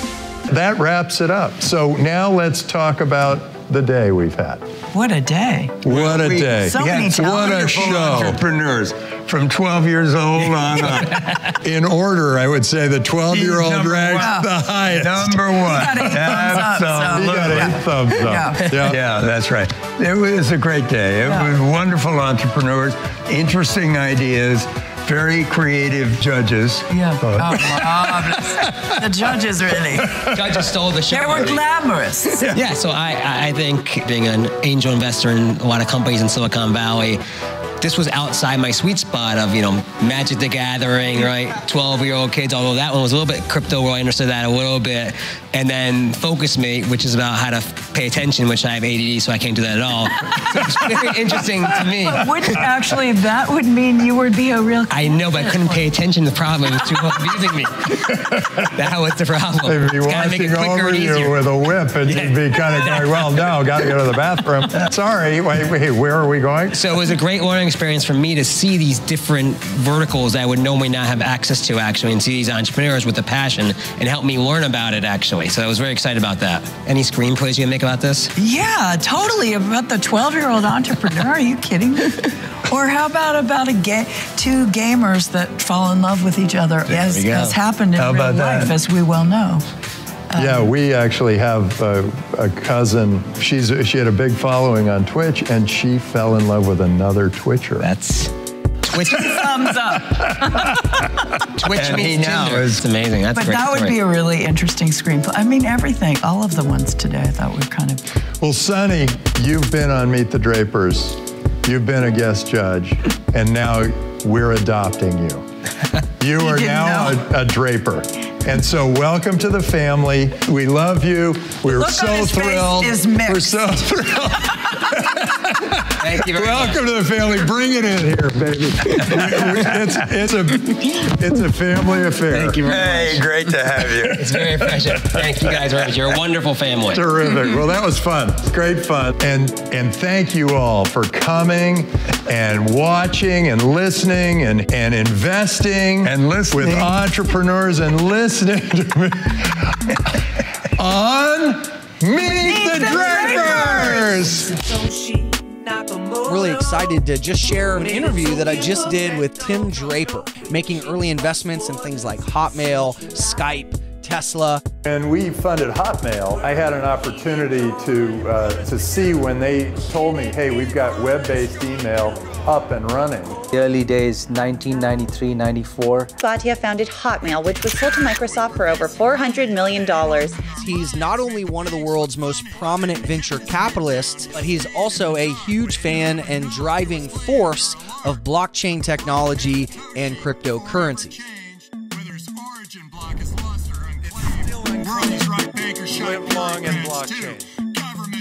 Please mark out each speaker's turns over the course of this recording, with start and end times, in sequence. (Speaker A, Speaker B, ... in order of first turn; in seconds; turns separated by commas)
Speaker A: 0.5-4.6, Speaker B: 4.9-5.9, Speaker A: 5.8-8.4, Speaker C: 5.9-11.3, Speaker B: 6.6-8.4, Speaker A: 11.6-19.0, Speaker C: 13.3-17.8, Speaker B: 14.2-14.5, Speaker B: 15.6-18.8, Speaker C: 18.7-29.0, Speaker B: 21.2-21.5, Speaker B: 26.9-30.2, Speaker D: 30.3-31.6, Speaker B: 31.1-32.6, Speaker D: 32.4-37.2, Speaker D: 37.8-52.6, Speaker B: 52.0-55.9, Speaker D: 54.9-61.5, Speaker B: 56.8-57.3, Speaker A: 59.6-66.9, Speaker D: 62.1-63.2, Speaker D: 66.8-78.3, Speaker B: 78.4-89.6, Speaker D: 86.9-87.6, Speaker C: 88.0-88.8, Speaker B: 90.3-90.7, Speaker A: 90.4-97.9, Speaker D: 97.8-98.3, Speaker D: 98.8-99.4, Speaker B: 99.1-100.8, Speaker D: 101.6-104.0, Speaker C: 101.6-102.8, Speaker B: 103.3-108.0, Speaker A: 108.4-115.5, Speaker A: 116.2-125.8, Speaker B: 116.4-117.2, Speaker B: 121.7-124.0, Speaker D: 126.0-126.8, Speaker A: 126.3-132.7, Speaker D: 132.3-133.2, Speaker C: 132.6-135.2, Speaker D: 134.0-137.1, Speaker A: 136.9-149.9, Speaker C: 146.0-147.1, Speaker A: 150.8-154.6, Speaker B: 152.3-154.3, Speaker E: 156.2-164.6, Speaker A: 164.8-173.4, Speaker F: 173.5-176.1, Speaker G: 176.2-180.5, Speaker E: 180.5-191.2, Speaker A: 192.2-193.4, Speaker A: 194.8-197.5